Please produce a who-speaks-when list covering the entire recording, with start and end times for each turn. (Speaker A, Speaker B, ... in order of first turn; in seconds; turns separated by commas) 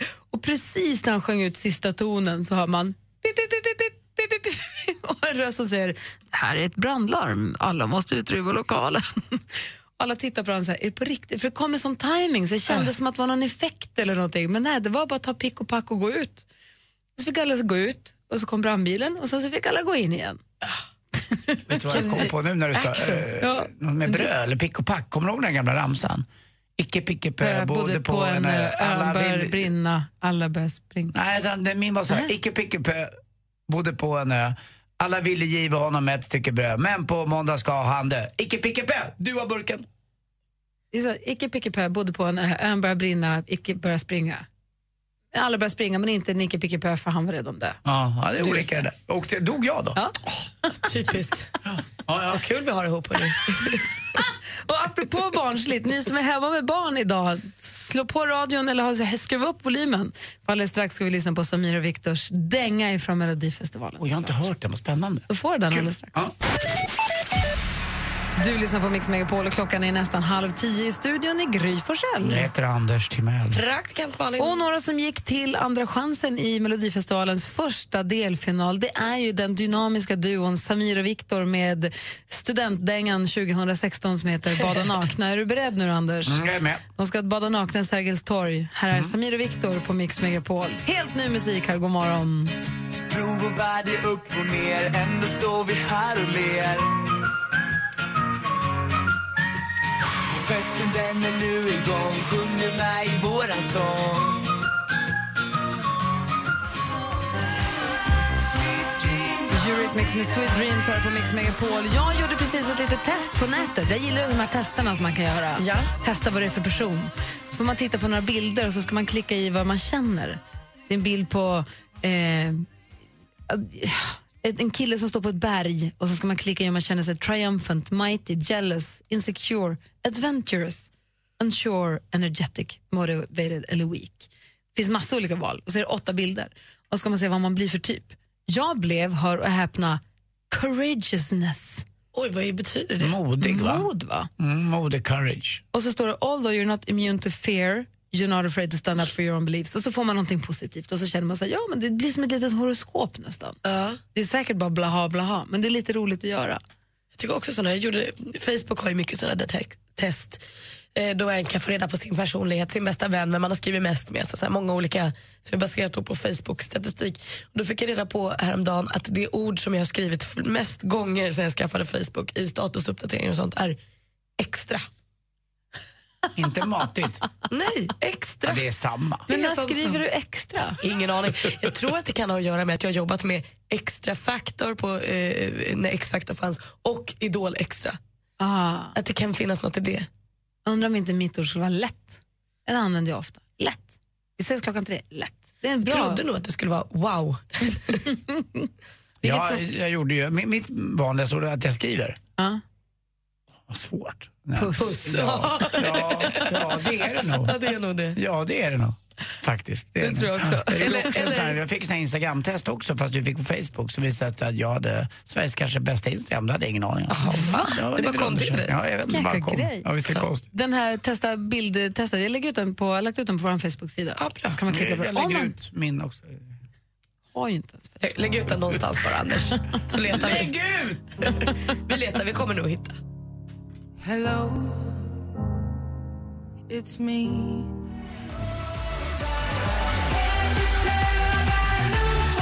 Speaker A: 0.3-9.4, Speaker A: 10.0-16.4, Speaker A: 17.2-20.4, Speaker A: 21.3-22.2, Speaker B: 21.7-26.2, Speaker C: 21.9-23.2, Speaker A: 23.4-24.3, Speaker B: 26.8-29.7, Speaker A: 27.4-31.1, Speaker B: 31.1-33.1, Speaker B: 33.7-39.8, Speaker A: 40.9-44.5, Speaker A: 45.3-47.8, Speaker B: 47.8-50.0, Speaker A: 48.4-48.8, Speaker A: 50.0-50.8, Speaker C: 50.8-51.5, Speaker B: 52.0-52.4, Speaker C: 52.3-53.8, Speaker A: 54.2-64.3, Speaker B: 64.0-66.3, Speaker A: 65.3-66.2, Speaker A: 68.4-72.5, Speaker B: 72.2-73.6, Speaker C: 73.5-74.6, Speaker A: 74.4-86.4, Speaker B: 86.2-86.8, Speaker A: 86.9-92.5, Speaker D: 93.1-97.0, Speaker D: 100.4-104.5, Speaker A: 109.5-122.7, Speaker C: 115.6-115.9, Speaker A: 123.5-141.8, Speaker C: 142.1-143.2, Speaker B: 143.0-145.6, Speaker A: 143.4-144.3, Speaker A: 145.7-153.6, Speaker C: 153.7-154.0, Speaker A: 154.1-156.6, Speaker C: 157.1-160.4, Speaker C: 160.9-173.8, Speaker C: 174.4-174.8, Speaker B: 176.3-177.2, Speaker C: 177.5-178.6, Speaker B: 178.4-179.2, Speaker C: 179.3-180.0, Speaker A: 179.3-180.8, Speaker C: 180.8-188.0, Speaker A: 188.4-188.9, Speaker C: 188.9-190.1, Speaker A: 190.6-196.2, Speaker C: 195.8-198.0, Speaker A: 198.1-198.7, Speaker A: 199.2-199.6, Speaker B: 199.2-202.2, Speaker B: 203.7-207.6, Speaker A: 204.6-205.2, Speaker C: 204.8-208.2, Speaker B: 208.1-220.5, Speaker A: 210.0-211.1, Speaker C: 210.7-211.6, Speaker C: 217.1-218.7, Speaker A: 217.3-217.7, Speaker A: 219.1-219.9, Speaker A: 220.5-225.6, Speaker C: 224.2-224.6, Speaker B: 224.7-226.5, Speaker A: 227.3-228.2, Speaker C: 228.0-230.5, Speaker B: 230.1-231.2, Speaker C: 231.2-233.0, Speaker E: 234.0-234.9, Speaker E: 236.7-237.7